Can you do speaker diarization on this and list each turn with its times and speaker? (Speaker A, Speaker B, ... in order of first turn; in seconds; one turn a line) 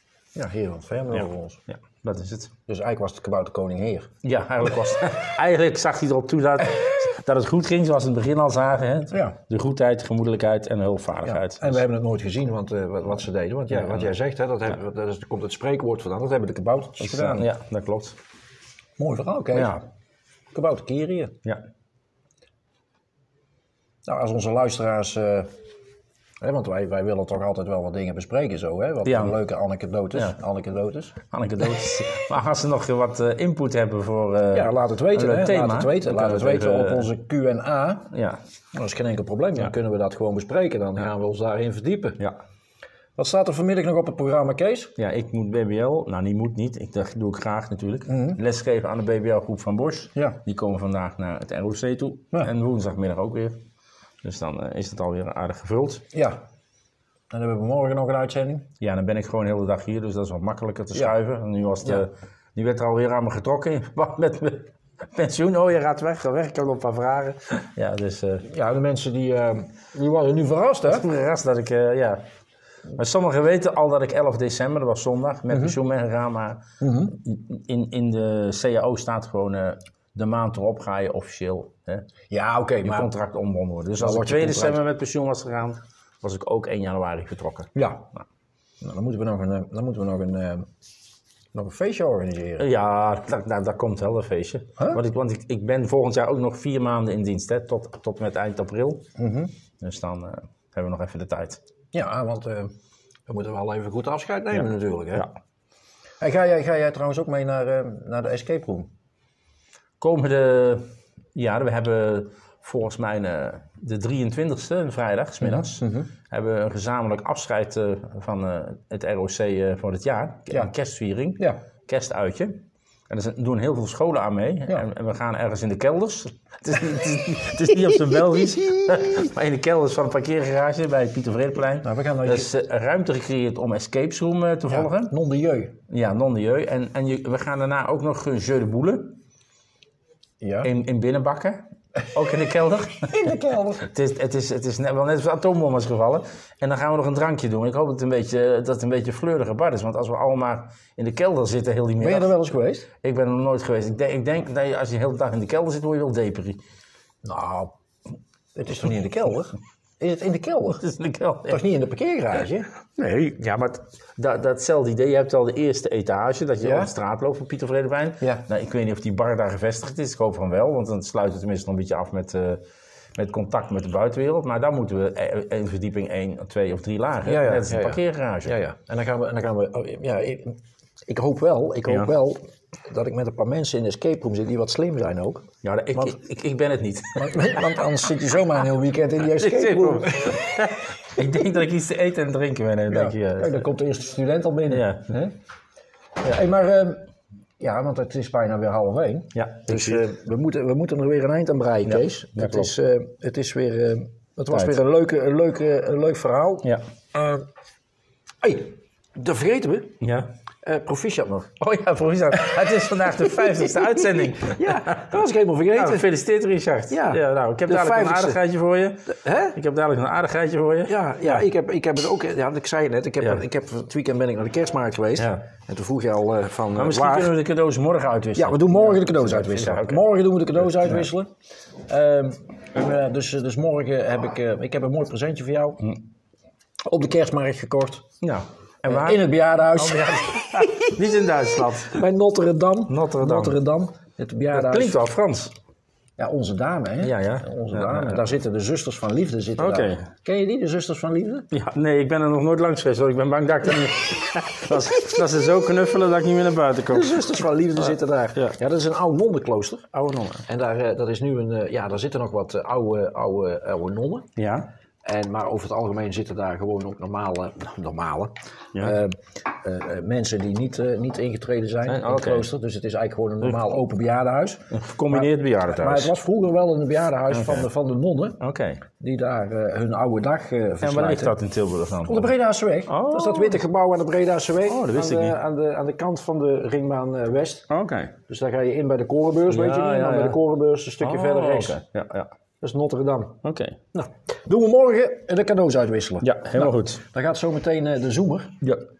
Speaker A: 0.3-1.6
Speaker B: 1.7-2.5
Speaker A: 2.7-4.1
Speaker B: 4.2-11.8
Speaker A: 9.1-9.4
Speaker A: 11.2-17.5
Speaker B: 13.7-14.1
Speaker B: 17.0-18.1
Speaker A: 19.0-19.8
Speaker B: 19.5-19.8
Speaker A: 20.5-21.3
Speaker A: 24.0-25.5
Speaker A: 26.4-31.1
Speaker B: 29.0-29.4
Speaker B: 31.3-37.1
Speaker A: 34.5-38.1
Speaker B: 38.1-38.4
Speaker A: 38.7-42.2
Speaker A: 43.1-44.9
Speaker B: 45.0-53.6
Speaker A: 48.1-48.4
Speaker B: 54.2-56.0
Speaker A: 56.1-56.4
Speaker A: 57.3-58.7
Speaker B: 58.8-68.5
Speaker A: 68.5-71.0
Speaker B: 70.9-72.2
Speaker B: 73.0-82.0
Speaker A: 75.5-75.8
Speaker A: 76.8-77.2
Speaker A: 82.3-83.1
Speaker B: 82.8-88.2
Speaker A: 84.0-84.8
Speaker A: 87.7-88.0
Speaker A: 88.8-90.7
Speaker A: 91.5-92.7
Speaker B: 92.6-99.0
Speaker A: 99.2-99.5
Speaker B: 99.8-101.6
Speaker A: 101.9-102.7
Speaker A: 103.3-105.3
Speaker A: 106.2-108.9
Speaker B: 110.0-110.8
Speaker B: 111.3-135.1
Speaker A: 115.4-116.1
Speaker A: 131.8-132.5
Speaker A: 134.7-135.8
Speaker B: 135.9-139.2
Speaker A: 140.4-140.7
Speaker B: 140.6-152.3
Speaker A: 143.1-143.8
Speaker A: 152.0-152.9
Speaker B: 153.0-156.6
Speaker A: 157.2-157.7
Speaker A: 158.5-160.8
Speaker B: 160.7-161.6
Speaker A: 161.5-162.7
Speaker B: 163.0-172.6
Speaker A: 166.6-166.9
Speaker B: 173.2-178.5
Speaker A: 177.2-185.4
Speaker B: 181.8-182.1
Speaker B: 185.6-187.7
Speaker A: 187.1-190.6
Speaker B: 189.3-193.6
Speaker A: 192.9-195.3
Speaker B: 194.7-195.1
Speaker A: 196.2-197.0
Speaker A: 197.6-207.4
Speaker B: 199.3-200.1
Speaker B: 201.8-202.7
Speaker B: 204.5-204.8
Speaker A: 208.4-209.9
Speaker B: 210.0-210.3
Speaker A: 210.6-211.5
Speaker B: 211.6-214.9
Speaker A: 213.3-216.1
Speaker B: 215.7-221.4
Speaker A: 216.9-218.4
Speaker A: 219.1-219.6
Speaker A: 220.8-227.3
Speaker B: 225.2-225.4
Speaker B: 226.7-230.1
Speaker A: 228.3-231.3
Speaker B: 230.7-231.0
Speaker A: 231.9-235.9
Speaker A: 236.8-238.0
Speaker B: 238.2-242.0
Speaker A: 238.8-240.9
Speaker A: 241.8-245.0
Speaker B: 242.9-243.6
Speaker B: 244.5-245.5
Speaker A: 246.2-251.5
Speaker B: 247.0-248.3
Speaker B: 249.6-250.1
Speaker B: 251.5-258.6
Speaker A: 256.9-259.8
Speaker B: 259.9-260.4
Speaker A: 260.5-264.3
Speaker B: 264.4-264.7
Speaker A: 265.0-278.4
Speaker B: 271.8-272.5
Speaker B: 273.4-273.8
Speaker B: 274.7-276.1
Speaker B: 277.3-277.7
Speaker B: 278.4-278.8
Speaker A: 279.0-281.3
Speaker B: 280.8-282.3
Speaker A: 282.1-287.7
Speaker B: 282.9-283.6
Speaker B: 284.6-285.4
Speaker B: 287.7-288.1
Speaker A: 288.3-291.8
Speaker B: 289.5-290.4
Speaker B: 291.0-292.3
Speaker A: 292.6-293.4
Speaker B: 293.4-293.8
Speaker A: 293.9-298.5
Speaker B: 296.2-297.0